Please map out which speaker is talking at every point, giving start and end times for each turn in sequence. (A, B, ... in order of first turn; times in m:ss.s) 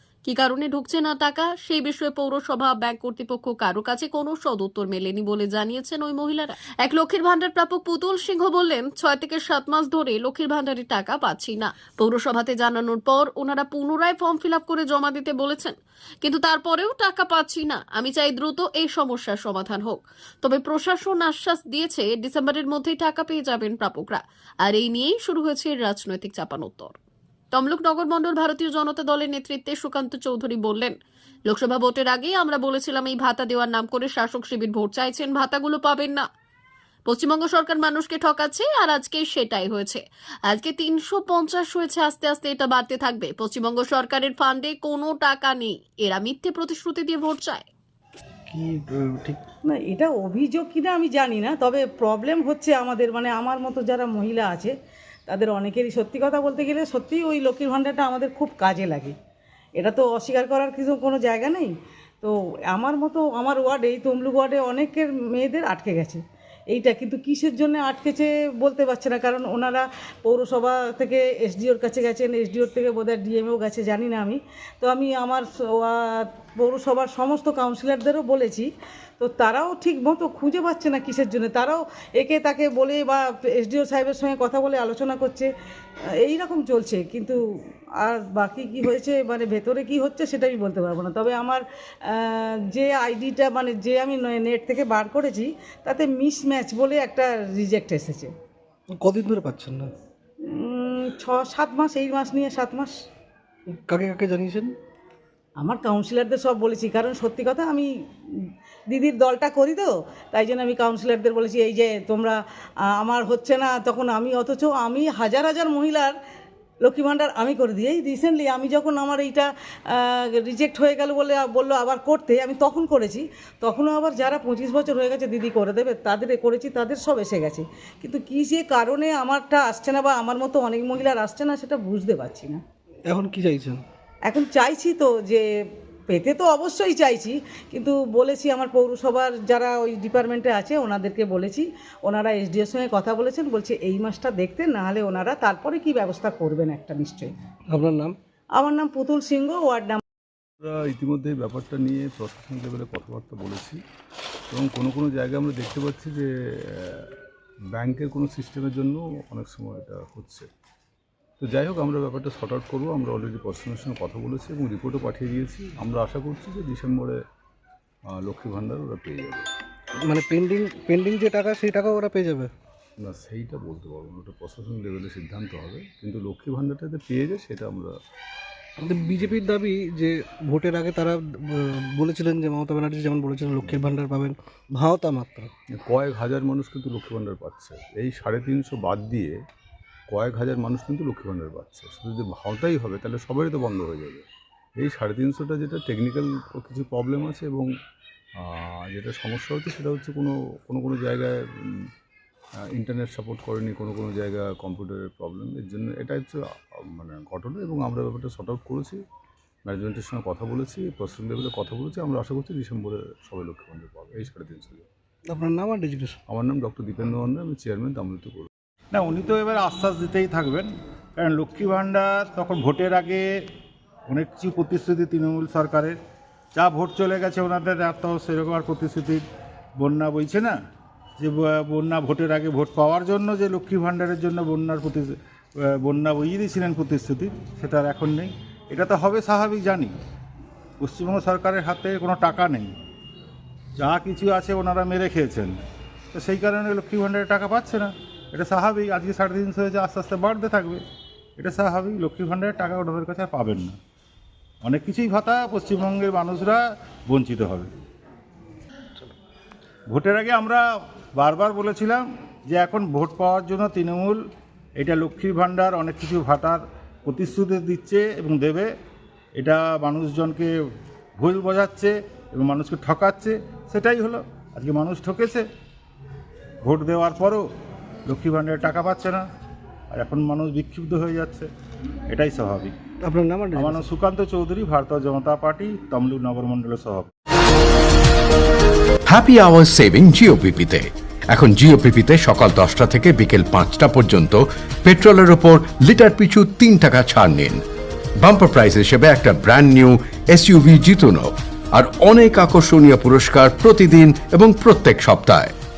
0:00.2-0:26.9 A
0:27.5-0:30.9 A
0:31.5-0:36.2 A
0:37.1-0:47.7 A
0:48.5-0:49.4 B
0:49.7-0:54.7 C
0:55.3-0:59.1 C
0:59.8-1:18.7 C
1:19.2-1:25.5 C
1:26.2-1:27.4 C
1:28.0-1:38.3 C
1:38.9-1:39.9 B
1:40.5-1:42.9 C
1:43.7-1:44.7 B
1:45.6-1:47.9 C
1:48.9-1:52.4 C
1:53.0-1:56.1 C
1:56.8-2:12.6 C
2:13.0-2:13.8 B
2:14.3-2:15.4 C
2:16.1-2:27.3 C
2:27.7-2:28.2 B
2:28.6-2:30.0 C
2:30.6-2:33.8 D
2:34.5-2:37.2 D
2:37.7-2:40.5 D
2:41.4-2:47.2 D
2:48.1-2:49.5 D
2:50.0-2:52.5 B
2:53.0-2:57.9 D
2:58.8-3:05.5 B
3:05.7-3:09.4 D
3:10.1-3:14.2 D
3:14.8-3:17.7 D
3:18.4-3:21.9 D
3:22.7-3:26.4 D
3:26.9-3:29.0 D
3:29.6-3:34.9 D
3:35.3-3:36.2 B
3:36.3-3:38.5 D
3:38.9-3:43.3 E
3:44.1-3:46.0 E
3:46.6-3:49.2 E
3:49.8-3:50.6 E
3:51.2-4:00.0 E
4:00.8-4:02.7 E
4:03.8-4:05.6 E
4:06.1-4:10.8 E
4:11.4-4:13.8 E
4:14.6-4:17.7 E
4:19.9-4:24.2 E
4:24.8-4:28.7 E
4:29.4-4:30.5 E
4:31.2-4:35.5 E
4:36.6-4:37.5 E
4:38.0-4:39.2 E
4:39.9-4:41.5 E
4:42.1-4:42.7 E
4:43.0-4:43.9 B
4:43.5-4:47.1 E
4:49.1-4:57.6 F
4:58.2-5:05.5 F